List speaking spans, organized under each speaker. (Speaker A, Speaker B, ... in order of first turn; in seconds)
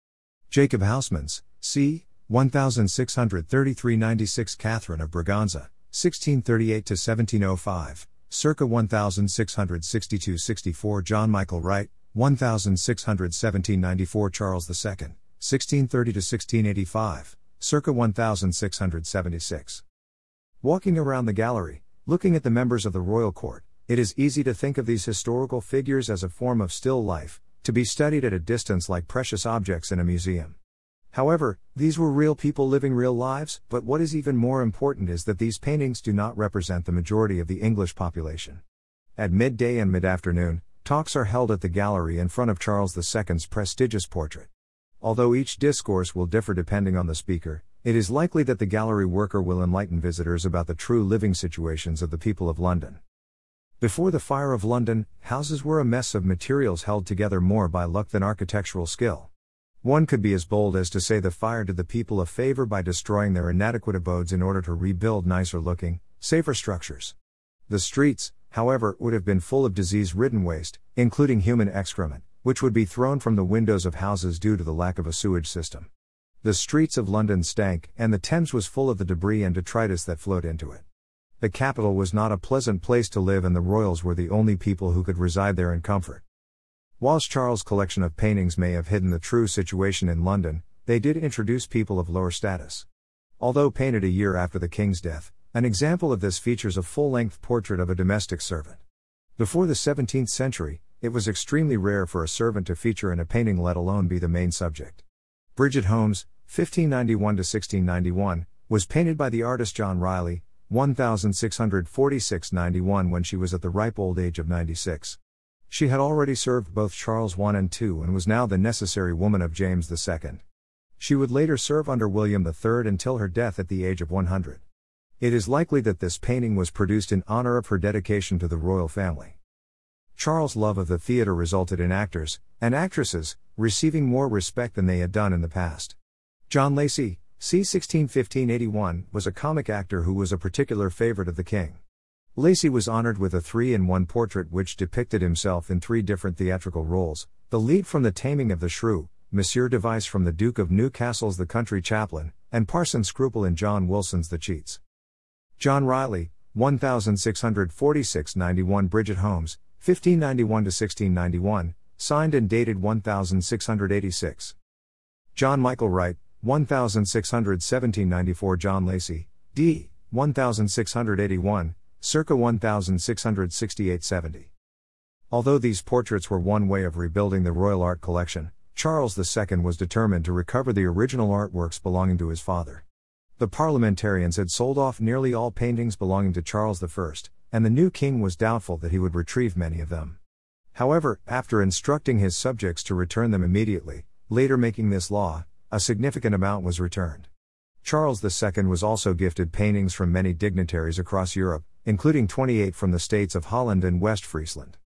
Speaker A: 0.5-19.8, 20.6-30.6, 31.1-38.6, 39.2-44.5, 45.0-53.0, 53.8-59.3, 59.8-67.1, 67.7-75.9, 76.4-80.8, 81.4-86.2, 87.0-92.8, 93.4-98.8, 99.4-105.0, 105.5-115.2, 115.7-120.4, 121.0-124.6, 125.2-129.4, 130.2-135.9, 136.5-141.8, 142.3-154.8, 155.6-164.5, 165.3-174.5, 175.3-182.8, 183.4-190.2, 190.7-197.3, 197.8-204.8